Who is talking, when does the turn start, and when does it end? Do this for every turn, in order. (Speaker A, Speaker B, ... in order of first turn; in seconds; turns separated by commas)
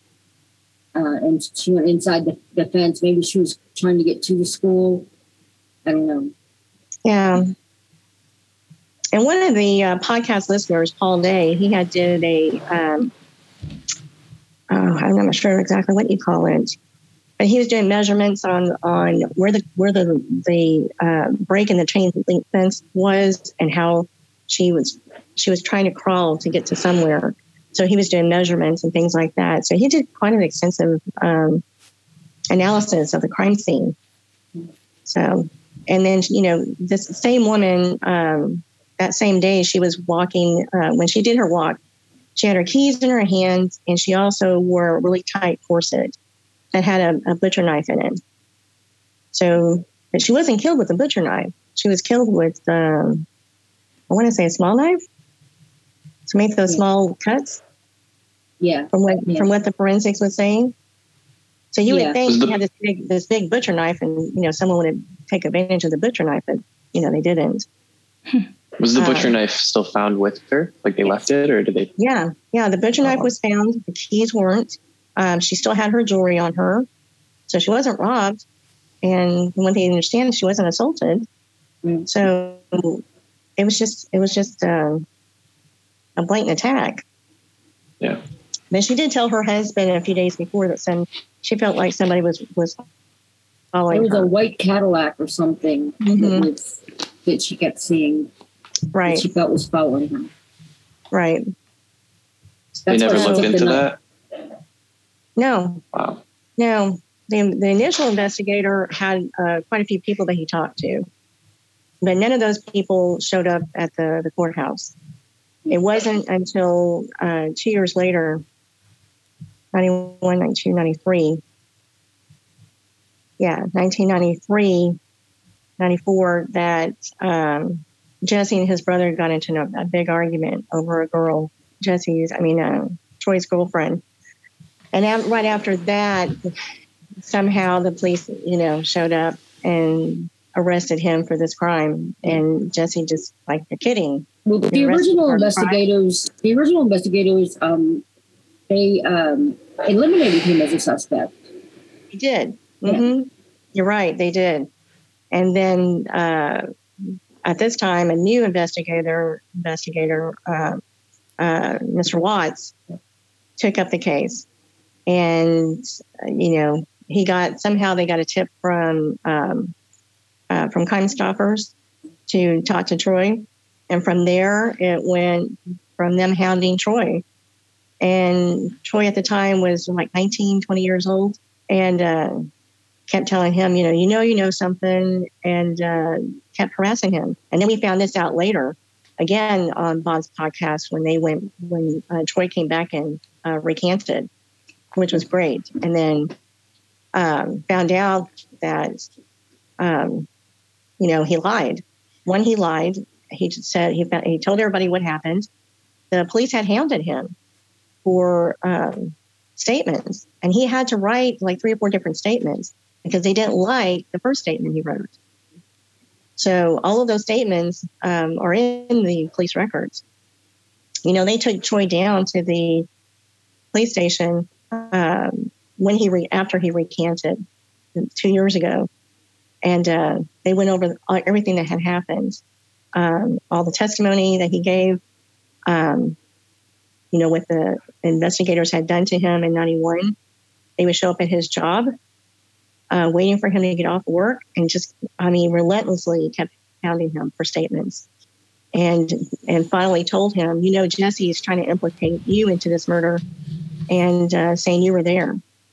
Speaker A: 0.9-5.1, Speaker A: 5.9-6.3, Speaker B: 7.0-7.5, Speaker B: 9.1-13.1, Speaker B: 14.7-16.7, Speaker B: 17.4-31.6, Speaker B: 32.5-34.0, Speaker B: 35.1-41.8, Speaker B: 42.4-46.2, Speaker B: 46.7-48.2, Speaker B: 49.3-53.2, Speaker B: 54.1-55.0, Speaker B: 56.3-57.6, Speaker A: 58.6-59.5, Speaker B: 58.9-60.7, Speaker B: 61.7-67.7, Speaker A: 61.9-62.2, Speaker C: 62.3-62.5, Speaker C: 68.8-71.9, Speaker B: 68.9-69.4, Speaker B: 72.0-76.9, Speaker B: 77.5-78.4, Speaker B: 79.0-81.3, Speaker A: 81.8-82.1, Speaker B: 82.1-83.0, Speaker B: 83.6-85.0, Speaker B: 86.2-87.0, Speaker B: 88.7-92.8, Speaker B: 93.7-94.3, Speaker A: 93.9-98.3, Speaker B: 96.0-96.5, Speaker B: 98.9-99.3, Speaker A: 99.1-100.3, Speaker B: 101.1-101.4, Speaker A: 102.8-103.9, Speaker C: 102.9-104.0, Speaker B: 103.1-103.5, Speaker B: 105.4-105.8, Speaker C: 105.9-106.2, Speaker B: 106.6-111.1, Speaker B: 112.0-115.0, Speaker B: 115.7-118.4, Speaker B: 119.7-121.4, Speaker B: 123.4-125.0, Speaker B: 125.8-134.0, Speaker B: 134.9-136.5, Speaker B: 137.2-145.8, Speaker A: 144.4-148.0, Speaker A: 148.7-151.4, Speaker B: 152.1-154.7, Speaker B: 155.3-156.6, Speaker B: 157.4-160.8, Speaker B: 161.4-162.8, Speaker B: 163.6-164.4, Speaker B: 165.1-169.7, Speaker B: 170.5-171.7, Speaker B: 172.3-177.2, Speaker B: 178.0-182.5, Speaker B: 183.1-194.3, Speaker B: 194.9-196.3, Speaker B: 197.1-199.1, Speaker B: 199.8-200.3, Speaker B: 201.0-205.5, Speaker B: 206.1-207.3, Speaker B: 208.1-215.2, Speaker B: 216.4-220.0, Speaker B: 221.1-222.9, Speaker B: 223.7-227.4, Speaker B: 227.9-228.9, Speaker B: 229.6-232.4, Speaker B: 232.9-235.0, Speaker B: 235.7-236.2, Speaker B: 237.1-240.2, Speaker B: 240.8-241.9, Speaker B: 242.9-248.1, Speaker B: 248.7-253.2, Speaker B: 253.9-255.4